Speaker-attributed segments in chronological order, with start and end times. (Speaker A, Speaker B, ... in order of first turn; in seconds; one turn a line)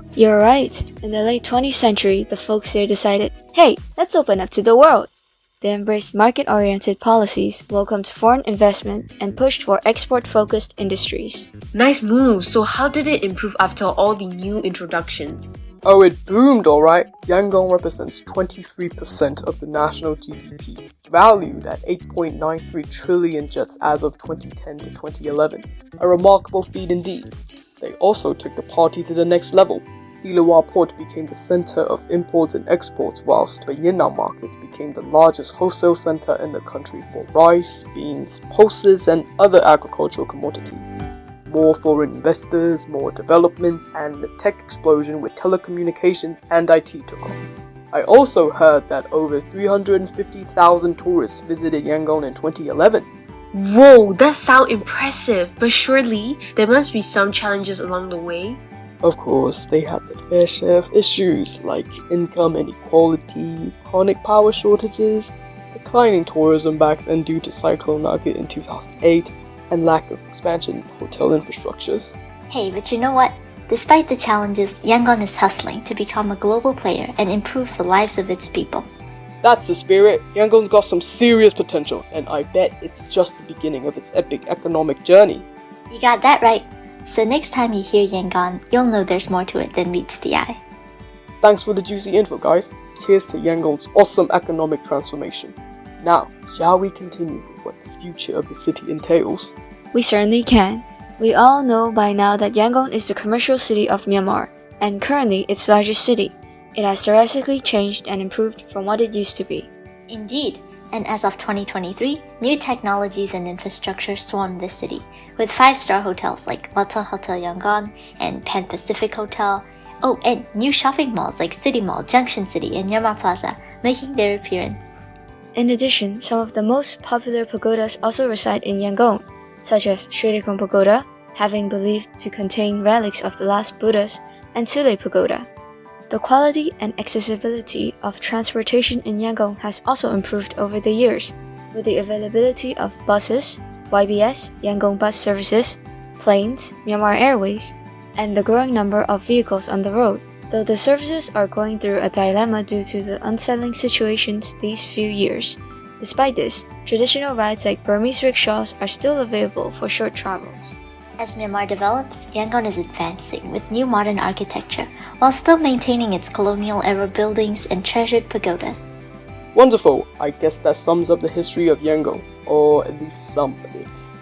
Speaker A: 0.2-11.5
Speaker B: 11.7-15.6
Speaker C: 15.8-40.9
Speaker C: 41.5-47.4
Speaker C: 47.9-53.1
Speaker B: 53.5-58.6
Speaker C: 59.0-72.1
Speaker D: 72.5-78.9
Speaker C: 79.4-85.5
Speaker D: 85.9-90.6
Speaker C: 91.4-99.5
Speaker A: 99.9-109.7
Speaker D: 110.1-124.9
Speaker A: 125.5-135.5
Speaker A: 136.1-160.8
Speaker D: 161.2-169.0
Speaker C: 169.5-174.1